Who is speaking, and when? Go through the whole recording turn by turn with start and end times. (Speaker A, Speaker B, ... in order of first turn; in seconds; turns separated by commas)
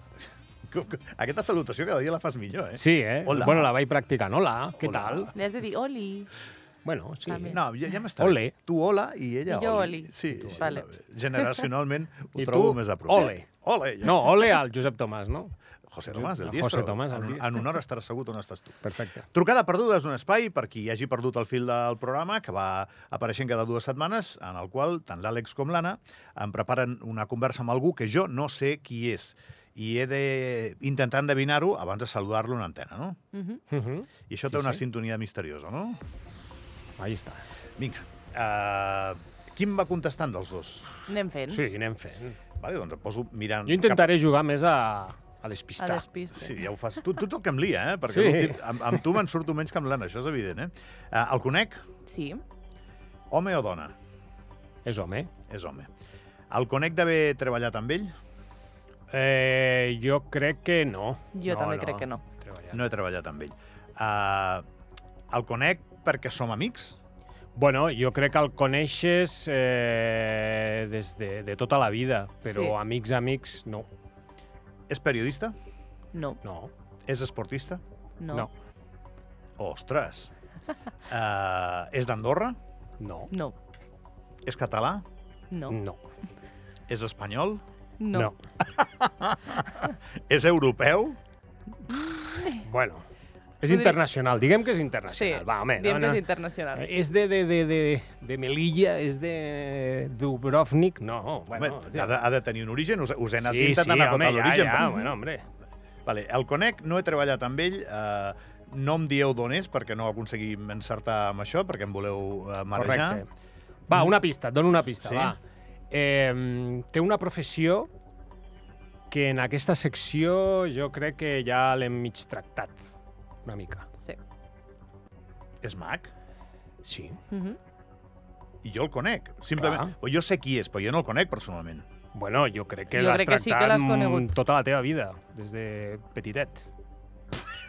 Speaker A: 0.7-3.7, Speaker B: 2.7-5.3, Speaker A: 4.8-5.3, Speaker C: 5.3-6.3, Speaker B: 6.8-7.6, Speaker C: 7.3-7.6, Speaker A: 7.5-14.4, Speaker B: 8.2-8.5, Speaker C: 9.5-10.8, Speaker B: 10.4-10.8, Speaker B: 12.3-13.5, Speaker B: 14.0-15.5, Speaker A: 15.9-33.2, Speaker B: 16.1-17.8, Speaker B: 18.8-19.2, Speaker C: 33.3-33.6, Speaker B: 33.7-34.8, Speaker A: 34.3-36.0, Speaker B: 37.0-37.4, Speaker A: 37.8-41.1, Speaker C: 41.1-41.6, Speaker B: 41.5-42.4, Speaker A: 42.6-44.1, Speaker B: 43.6-46.0, Speaker C: 45.8-46.6, Speaker A: 46.3-51.8, Speaker B: 48.1-49.2, Speaker C: 52.1-52.4, Speaker A: 53.3-53.9, Speaker B: 54.8-55.3, Speaker A: 55.5-55.9, Speaker A: 56.5-58.1, Speaker B: 59.1-62.9, Speaker C: 61.3-62.2, Speaker A: 62.7-64.6, Speaker A: 65.3-67.0, Speaker B: 67.5-73.9, Speaker C: 72.4-72.7, Speaker A: 74.9-75.5, Speaker C: 76.1-76.4, Speaker B: 76.4-76.7, Speaker A: 77.1-77.8, Speaker C: 78.2-78.5, Speaker A: 79.6-80.3, Speaker A: 81.1-82.6, Speaker B: 83.0-83.3, Speaker C: 83.3-83.5, Speaker A: 84.4-85.0, Speaker C: 85.5-85.8, Speaker B: 85.7-86.0, Speaker A: 86.9-87.6, Speaker C: 88.0-88.3, Speaker A: 88.6-91.2, Speaker C: 91.9-92.6, Speaker B: 91.9-93.0, Speaker B: 93.6-96.2, Speaker C: 93.6-94.0, Speaker C: 95.1-96.8, Speaker B: 96.7-102.1, Speaker A: 101.5-104.9, Speaker B: 103.4-105.4, Speaker C: 104.8-105.1, Speaker A: 106.0-113.2, Speaker B: 112.7-113.3, Speaker B: 113.9-115.4, Speaker A: 115.0-115.3, Speaker B: 115.9-117.9, Speaker B: 119.1-122.9, Speaker B: 123.4-123.9, Speaker A: 125.6-126.1, Speaker B: 126.8-127.2, Speaker C: 127.3-127.6, Speaker A: 128.6-131.8, Speaker B: 129.6-129.9, Speaker B: 132.1-136.7, Speaker C: 132.9-134.3